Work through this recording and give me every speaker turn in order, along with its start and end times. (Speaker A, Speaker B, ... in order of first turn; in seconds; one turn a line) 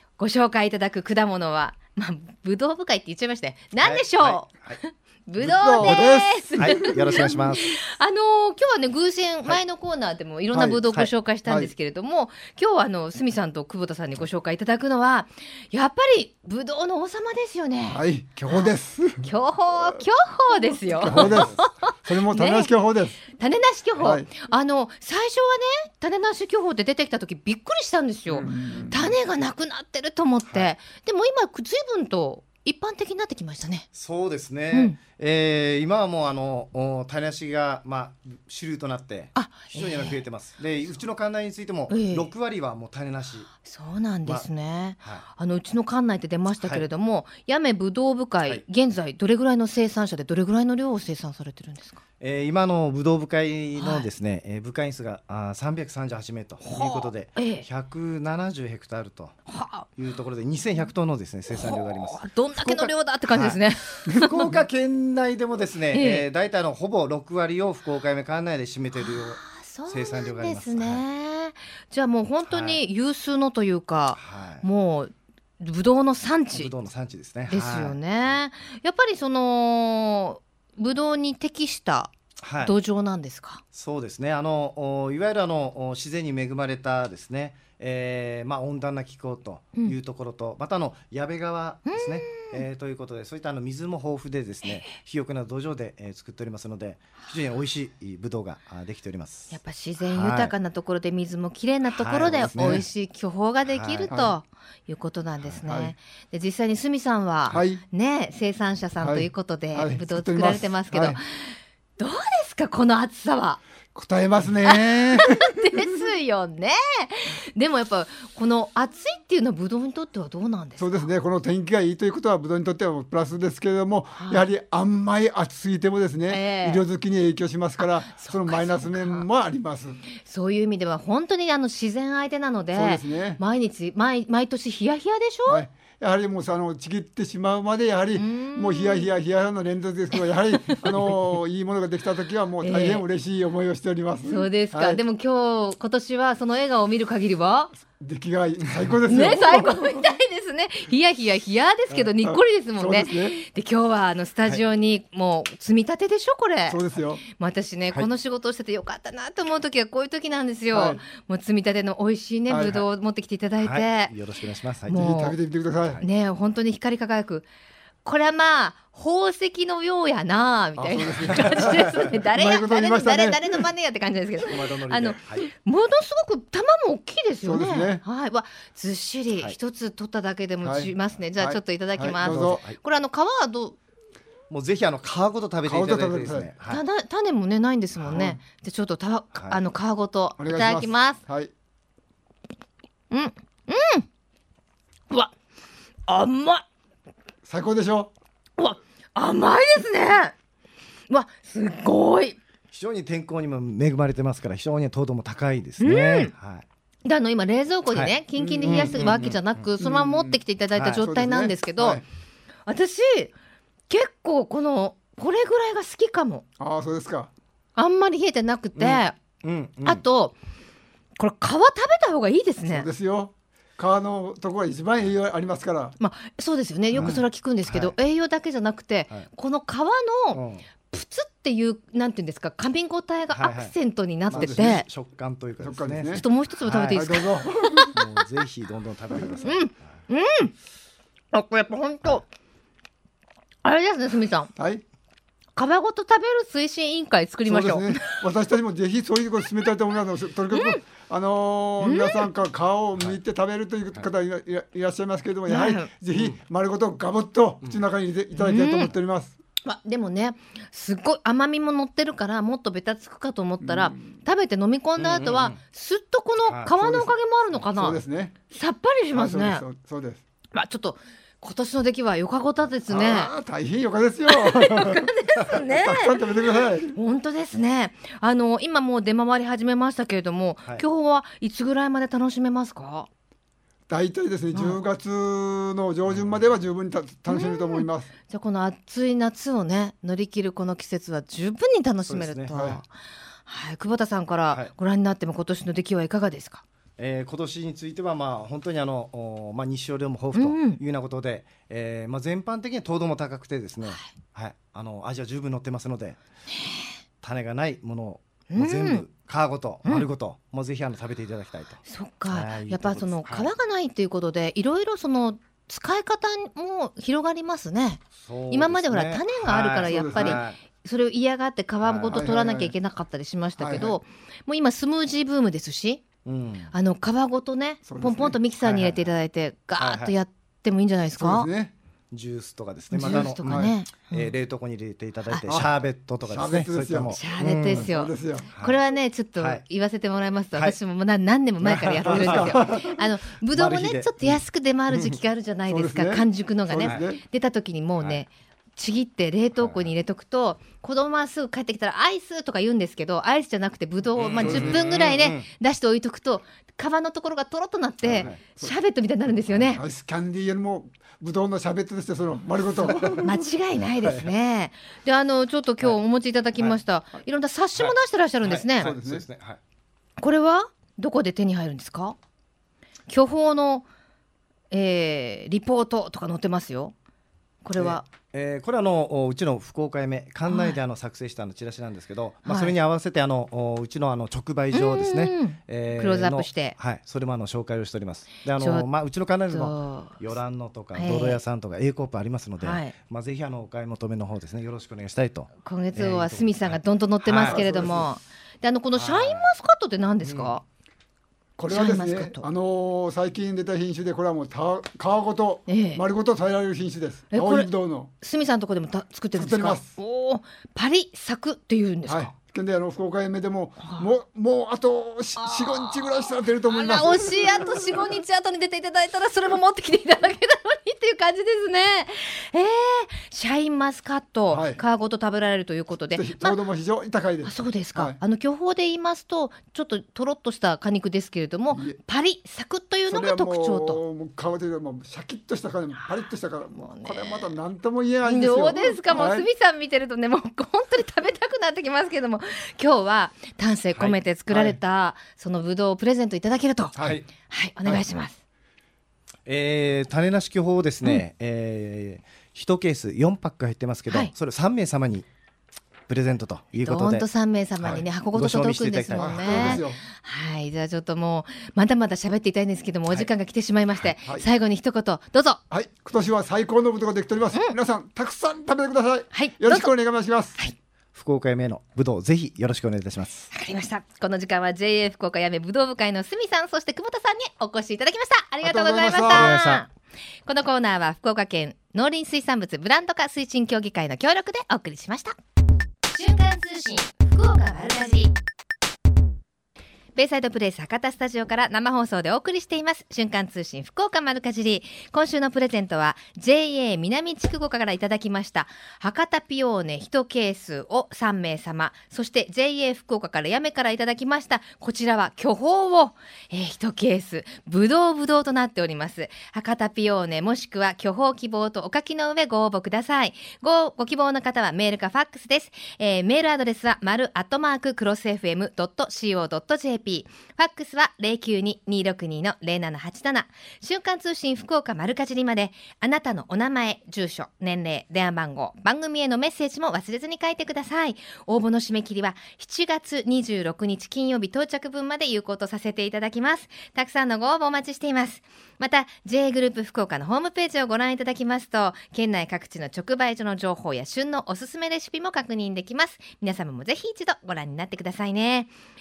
Speaker A: 0.2-22.7
Speaker B: 3.8-4.8
Speaker C: 5.4-7.3
Speaker B: 5.8-7.7
Speaker C: 10.5-10.8
Speaker C: 11.4-11.7
Speaker C: 17.9-19.2
Speaker C: 20.8-23.2
Speaker A: 23.3-33.9
Speaker C: 24.0-24.3
Speaker C: 28.3-29.1
Speaker B: 33.9-43.5
Speaker A: 34.7-35.0
Speaker A: 39.3-40.2
Speaker A: 41.9-42.3
Speaker A: 43.6-52.0
Speaker B: 45.0-45.2
Speaker B: 46.6-46.8
Speaker B: 52.2-63.6
Speaker A: 53.8-54.1
Speaker A: 56.6-57.7
Speaker A: 59.5-59.9
Speaker A: 61.5-64.6
Speaker B: 64.2-71.0
Speaker A: 65.9-66.2
Speaker A: 68.9-76.7
Speaker B: 72.5-72.8
Speaker B: 74.2-74.6
Speaker B: 76.5-78.0
Speaker A: 77.5-83.6
Speaker B: 82.4-82.7
Speaker B: 83.7-100.5
Speaker A: 91.9-92.6
Speaker A: 99.5-113.6
Speaker B: 101.9-102.8
Speaker B: 103.7-104.3
Speaker C: 105.6-105.9
Speaker C: 107.5-107.8
Speaker C: 109.0-111.2
Speaker C: 113.9-115.8
Speaker A: 114.6-121.1
Speaker C: 120.8-130.0
Speaker A: 124.2-124.5
Speaker A: 126.3-126.8
Speaker A: 127.8-129.2
Speaker A: 130.2-135.6
Speaker C: 132.7-133.4
Speaker C: 135.5-145.0
Speaker A: 138.1-139.1
Speaker A: 140.2-140.9
Speaker A: 142.6-143.0
Speaker A: 144.2-147.7
Speaker C: 147.9-150.0
Speaker A: 149.1-164.2
Speaker C: 152.2-153.4
Speaker C: 156.7-157.2
Speaker C: 160.7-161.0
Speaker C: 162.5-162.8
Speaker B: 163.6-165.0
Speaker A: 164.9-165.3
Speaker C: 164.9-166.0
Speaker A: 166.0-167.5
Speaker A: 168.0-183.8
Speaker C: 170.8-173.6
Speaker B: 171.3-172.1
Speaker B: 174.4-175.4
Speaker C: 177.4-178.0
Speaker C: 180.6-182.6
Speaker B: 182.0-182.8
Speaker B: 184.5-186.8
Speaker C: 185.6-186.5
Speaker A: 186.7-191.2
Speaker B: 189.3-189.6
Speaker C: 190.4-191.5
Speaker A: 193.1-194.1
Speaker A: 196.1-196.6
Speaker C: 197.4-198.1
Speaker A: 198.6-200.3
Speaker A: 201.1-202.4
Speaker B: 202.7-206.6
Speaker A: 205.8-206.3
Speaker A: 207.0-212.0
Speaker B: 207.9-209.7
Speaker C: 208.3-209.0
Speaker C: 209.8-212.0
Speaker A: 212.7-213.3
Speaker A: 213.9-216.4
Speaker C: 216.6-217.3
Speaker A: 217.8-219.2
Speaker B: 218.8-220.0
Speaker A: 219.8-220.3
Speaker A: 221.2-222.9
Speaker C: 222.6-225.9
Speaker A: 226.0-234.9
Speaker B: 226.9-227.9
Speaker B: 230.3-230.6
Speaker B: 233.3-233.7
Speaker B: 234.3-237.2
Speaker C: 234.3-234.8
Speaker C: 235.6-236.2
Speaker A: 236.1-238.0
Speaker C: 236.9-237.9
Speaker B: 237.9-240.0
Speaker A: 239.4-240.5
Speaker A: 241.3-242.2
Speaker A: 243.6-244.5
Speaker C: 244.6-244.8
Speaker A: 245.6-248.2
Speaker C: 247.4-259.4
Speaker A: 250.5-250.8
Speaker A: 251.8-252.3
Speaker A: 255.5-255.9
Speaker B: 256.1-256.4
Speaker A: 258.4-258.9
Speaker A: 259.6-269.6
Speaker C: 263.6-264.1
Speaker B: 265.0-265.6
Speaker B: 266.4-266.7
Speaker C: 266.8-267.1
Speaker C: 267.7-268.4
Speaker C: 269.1-270.2
Speaker A: 270.5-273.3
Speaker C: 273.0-275.0
Speaker A: 274.3-276.2
Speaker C: 275.7-276.9
Speaker A: 276.9-283.1
Speaker C: 283.9-288.1
Speaker A: 284.5-284.8
Speaker B: 286.1-286.6
Speaker A: 287.3-292.9
Speaker B: 292.1-292.8
Speaker C: 292.5-292.8
Speaker A: 293.4-296.6
Speaker B: 297.0-306.2
Speaker A: 300.3-300.8
Speaker A: 306.5-306.9
Speaker B: 307.2-313.5
Speaker A: 308.5-309.1
Speaker A: 311.8-326.0
Speaker B: 318.1-320.6
Speaker C: 319.8-320.4
Speaker B: 321.8-322.3
Speaker C: 322.1-322.7
Speaker C: 323.6-323.9
Speaker B: 326.2-326.7
Speaker A: 326.7-331.5
Speaker C: 327.8-328.8
Speaker B: 328.7-329.1
Speaker B: 329.8-330.1
Speaker C: 331.1-331.7
Speaker B: 332.1-337.9
Speaker A: 332.9-334.3
Speaker C: 333.0-333.7
Speaker C: 335.4-338.5
Speaker A: 337.1-359.8
Speaker B: 338.5-338.8
Speaker B: 339.4-339.6
Speaker B: 341.6-342.8
Speaker C: 342.0-343.0
Speaker B: 343.4-345.2
Speaker C: 345.7-347.2
Speaker B: 348.0-348.2
Speaker B: 349.6-349.9
Speaker B: 354.1-355.5
Speaker C: 354.4-354.9
Speaker B: 358.0-358.4
Speaker C: 358.2-358.7
Speaker C: 359.7-363.3
Speaker B: 362.8-363.3
Speaker A: 363.1-368.9
Speaker B: 364.0-364.3
Speaker B: 367.8-369.6
Speaker C: 368.8-369.2
Speaker A: 370.2-372.2
Speaker A: 373.1-373.9
Speaker A: 374.7-376.9
Speaker A: 377.6-378.1
Speaker B: 377.8-398.0
Speaker A: 380.5-380.8
Speaker A: 382.4-382.7
Speaker A: 384.7-386.8
Speaker A: 388.6-388.9
Speaker A: 389.5-390.3
Speaker A: 390.9-391.4
Speaker A: 392.6-392.9
Speaker A: 395.6-400.6
Speaker C: 397.4-398.1
Speaker B: 399.0-399.5
Speaker B: 400.2-400.5
Speaker C: 401.6-408.1
Speaker A: 401.7-402.4
Speaker A: 405.7-406.0
Speaker A: 407.3-412.3
Speaker C: 409.3-409.9
Speaker C: 412.1-418.0
Speaker A: 413.8-414.1
Speaker A: 415.4-416.0
Speaker A: 416.7-426.6
Speaker C: 424.5-424.8
Speaker C: 426.1-428.2
Speaker A: 427.4-434.0
Speaker C: 431.7-432.0
Speaker C: 433.1-439.4
Speaker A: 436.7-437.5
Speaker A: 438.2-446.9
Speaker B: 443.9-444.2
Speaker C: 444.5-444.8
Speaker B: 447.0-447.3
Speaker A: 447.5-448.4
Speaker B: 449.4-455.3
Speaker B: 456.1-459.8
Speaker A: 456.8-465.6
Speaker C: 459.1-460.0
Speaker C: 465.7-470.6
Speaker A: 469.3-469.9
Speaker B: 471.1-473.5
Speaker A: 473.5-479.9
Speaker C: 478.6-479.6
Speaker B: 479.2-479.9
Speaker A: 480.4-485.3
Speaker A: 486.1-488.3
Speaker A: 490.1-548.7